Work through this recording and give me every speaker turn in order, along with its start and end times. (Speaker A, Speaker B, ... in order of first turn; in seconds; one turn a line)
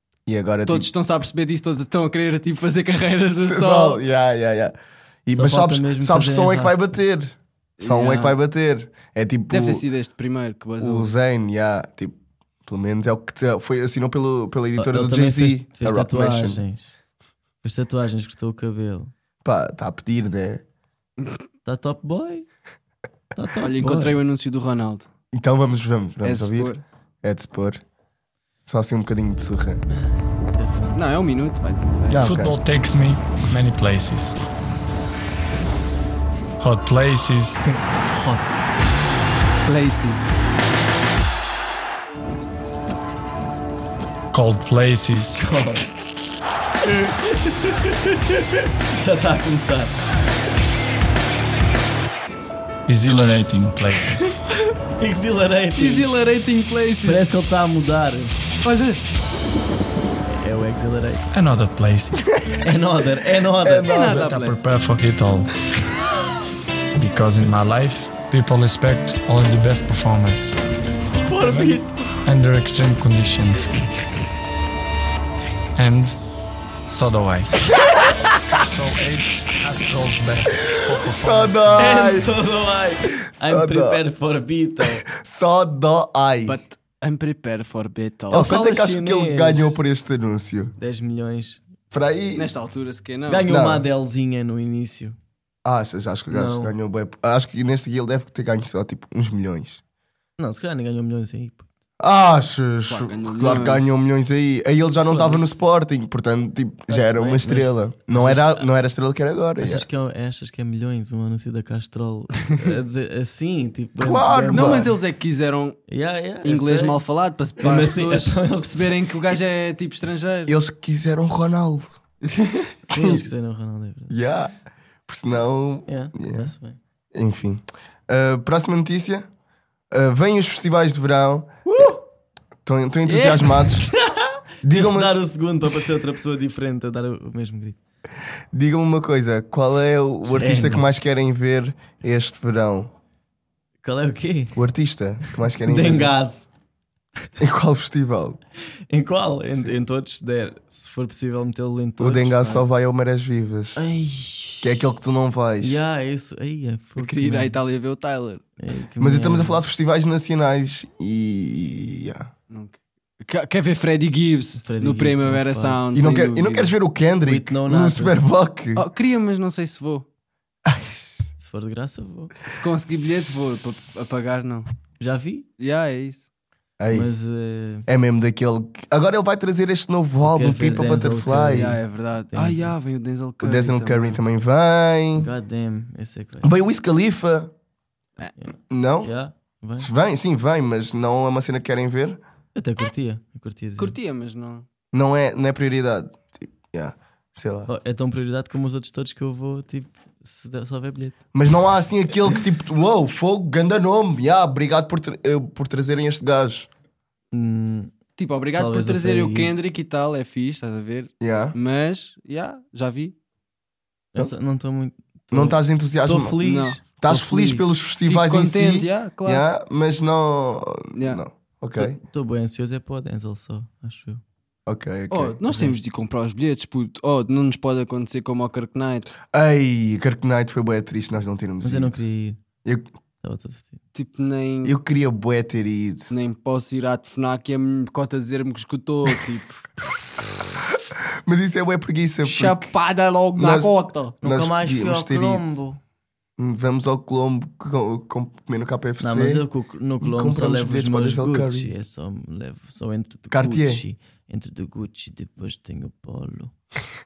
Speaker A: 0.3-0.9
Speaker B: 0.7-4.0
Speaker A: 3.4-4.8
Speaker A: 5.3-9.9
Speaker C: 5.3-6.8
Speaker B: 7.8-8.3
Speaker B: 9.5-11.1
Speaker A: 10.8-16.6
Speaker C: 14.8-16.9
Speaker C: 17.6-19.1
Speaker A: 19.4-20.6
Speaker C: 21.6-22.5
Speaker C: 23.4-24.2
Speaker B: 23.6-25.1
Speaker A: 25.3-27.8
Speaker B: 26.2-26.8
Speaker A: 28.6-29.8
Speaker C: 29.9-31.0
Speaker B: 30.9-32.3
Speaker A: 32.1-32.5
Speaker D: 32.2-34.4
Speaker D: 36.6-37.6
Speaker C: 38.1-38.4
Speaker B: 39.6-40.3
Speaker D: 44.3-45.4
Speaker C: 45.4-45.9
Speaker C: 46.9-49.9
Speaker D: 52.9-54.4
Speaker C: 55.0-56.1
Speaker B: 55.8-57.3
Speaker C: 57.0-58.3
Speaker B: 58.6-59.0
Speaker C: 60.4-61.3
Speaker D: 61.3-62.3
Speaker C: 62.6-64.3
Speaker B: 63.6-64.6
Speaker D: 64.0-65.5
Speaker D: 67.0-70.6
Speaker C: 71.2-72.1
Speaker D: 71.4-73.9
Speaker D: 75.8-76.2
Speaker D: 76.9-77.5
Speaker D: 78.5-82.2
Speaker A: 80.9-82.3
Speaker C: 81.8-85.0
Speaker A: 83.2-84.0
Speaker A: 85.0-86.6
Speaker B: 86.5-88.5
Speaker C: 88.3-89.8
Speaker A: 88.3-90.8
Speaker C: 90.8-91.6
Speaker A: 91.9-92.6
Speaker B: 92.3-93.5
Speaker C: 93.3-95.2
Speaker A: 93.5-93.9
Speaker A: 95.6-99.8
Speaker C: 96.3-96.7
Speaker C: 100.4-101.7
Speaker A: 102.0-109.9
Speaker B: 102.9-103.9
Speaker C: 106.9-108.7
Speaker C: 109.6-114.9
Speaker A: 114.0-115.0
Speaker B: 114.5-115.8
Speaker C: 115.9-117.0
Speaker B: 116.4-120.5
Speaker C: 117.6-119.0
Speaker A: 120.5-122.0
Speaker B: 122.3-122.7
Speaker C: 122.9-124.2
Speaker A: 122.9-123.2
Speaker A: 124.1-124.5
Speaker A: 125.1-126.5
Speaker C: 125.9-126.8
Speaker A: 127.1-129.3
Speaker A: 129.9-131.7
Speaker B: 131.7-132.0
Speaker A: 132.7-133.9
Speaker B: 133.1-133.8
Speaker C: 133.9-137.8
Speaker A: 134.6-135.2
Speaker A: 138.5-142.9
Speaker C: 140.2-140.9
Speaker C: 143.8-144.6
Speaker A: 144.6-146.2
Speaker C: 145.6-146.5
Speaker A: 147.4-148.4
Speaker C: 148.9-152.7
Speaker A: 152.0-153.8
Speaker C: 153.8-154.9
Speaker A: 154.6-155.8
Speaker C: 155.6-157.6
Speaker B: 157.0-158.4
Speaker C: 158.6-159.6
Speaker A: 159.0-162.3
Speaker B: 162.5-166.7
Speaker C: 164.6-165.8
Speaker A: 165.9-168.8
Speaker C: 167.3-168.3
Speaker B: 168.8-170.1
Speaker A: 170.7-171.0
Speaker C: 171.4-172.3
Speaker B: 172.4-174.7
Speaker C: 175.0-175.5
Speaker B: 175.6-176.3
Speaker A: 176.8-177.1
Speaker C: 176.9-177.9
Speaker A: 177.9-181.8
Speaker C: 180.2-182.8
Speaker B: 181.5-184.2
Speaker A: 183.4-185.3
Speaker C: 185.2-186.5
Speaker A: 186.4-187.5
Speaker C: 188.4-189.9
Speaker A: 188.7-189.1
Speaker A: 189.8-192.2
Speaker C: 192.6-194.0
Speaker B: 193.8-194.7
Speaker A: 194.9-197.7
Speaker C: 197.7-201.2
Speaker A: 201.3-206.7
Speaker C: 207.3-207.9
Speaker B: 208.2-213.2
Speaker C: 208.6-209.7
Speaker A: 211.2-211.6
Speaker C: 214.1-217.7
Speaker A: 215.3-216.4
Speaker B: 216.4-216.8
Speaker A: 217.0-222.0
Speaker B: 218.0-219.5
Speaker B: 220.9-221.2
Speaker C: 221.8-224.2
Speaker A: 224.7-225.4
Speaker B: 225.1-229.1
Speaker C: 225.5-225.8
Speaker A: 229.3-232.0
Speaker C: 231.6-232.4
Speaker A: 232.6-232.9
Speaker C: 233.2-233.8
Speaker B: 233.9-234.8
Speaker A: 234.6-236.1
Speaker B: 236.1-239.7
Speaker A: 241.2-242.7
Speaker B: 242.2-244.2
Speaker A: 243.3-245.6
Speaker C: 244.2-245.8
Speaker A: 246.4-249.4
Speaker C: 249.0-256.5
Speaker A: 250.0-251.7
Speaker A: 253.3-253.8